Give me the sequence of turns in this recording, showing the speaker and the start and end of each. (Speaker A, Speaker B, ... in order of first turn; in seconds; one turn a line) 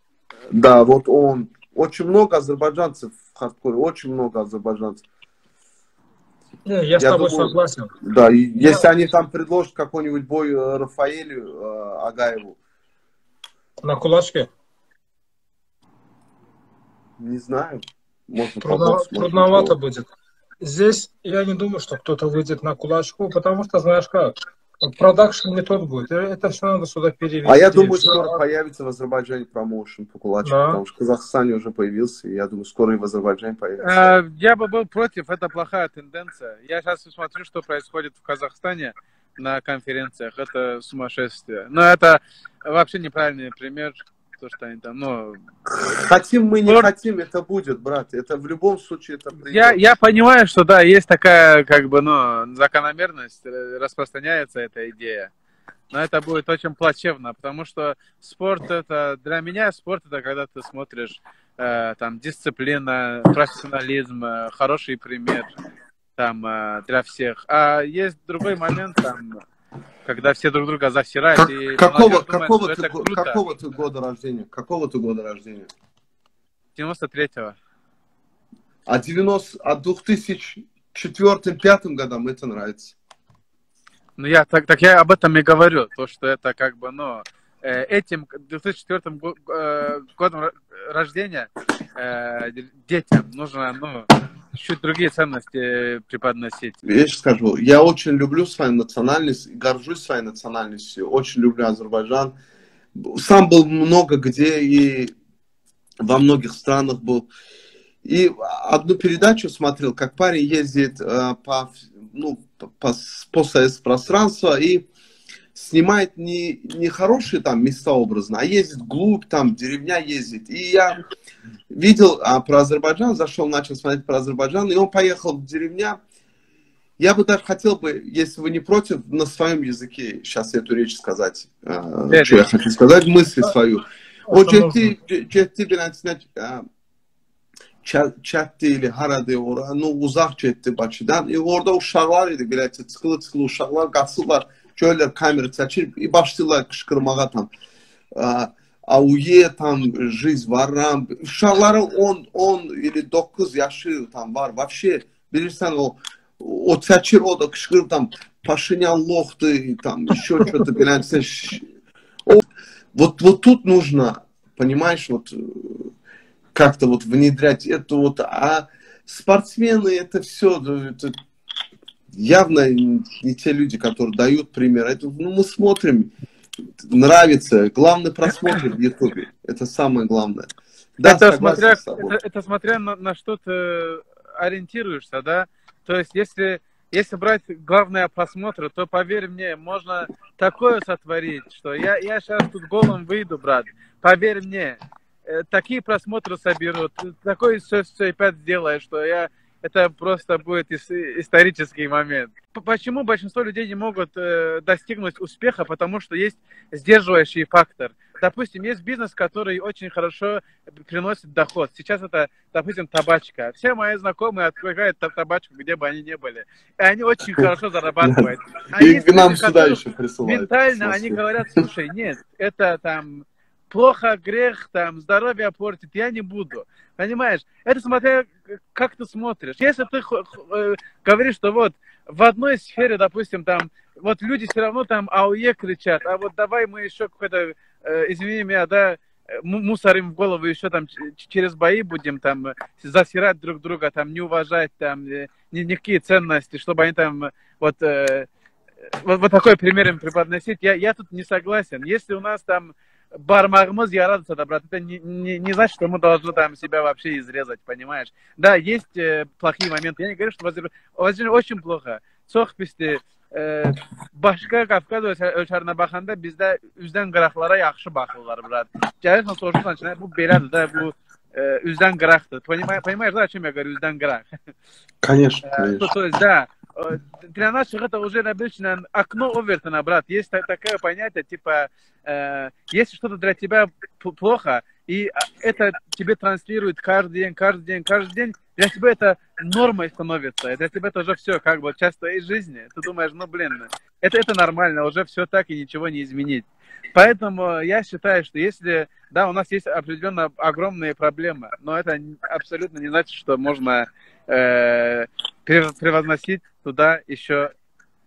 Speaker A: 0.5-5.0
Speaker B: 6.6-7.9
Speaker A: 7.0-12.6
Speaker B: 13.8-14.5
Speaker A: 17.2-19.7
Speaker B: 18.6-20.1
Speaker B: 20.6-28.4
Speaker A: 27.4-34.1
Speaker B: 30.4-30.8
Speaker C: 33.8-45.4
Speaker A: 45.6-49.8
Speaker C: 49.5-55.3
Speaker C: 55.9-65.5
Speaker C: 66.2-69.4
Speaker C: 70.0-73.4
Speaker A: 71.4-75.7
Speaker C: 76.7-77.5
Speaker A: 78.9-83.0
Speaker C: 84.2-96.8
Speaker A: 96.8-102.3
Speaker A: 102.9-105.1
Speaker A: 106.0-107.3
Speaker A: 108.0-114.8
Speaker A: 115.5-121.0
Speaker A: 121.7-126.0
Speaker A: 127.0-136.6
Speaker C: 132.1-132.4
Speaker B: 134.3-134.9
Speaker A: 137.8-147.5
Speaker A: 148.2-161.7
Speaker A: 162.9-165.9
Speaker A: 166.5-171.1
Speaker A: 172.1-176.1
Speaker A: 176.8-182.2
Speaker C: 181.0-248.3
Speaker A: 218.0-221.6
Speaker C: 248.9-274.3
Speaker A: 275.0-275.9
Speaker C: 275.5-307.5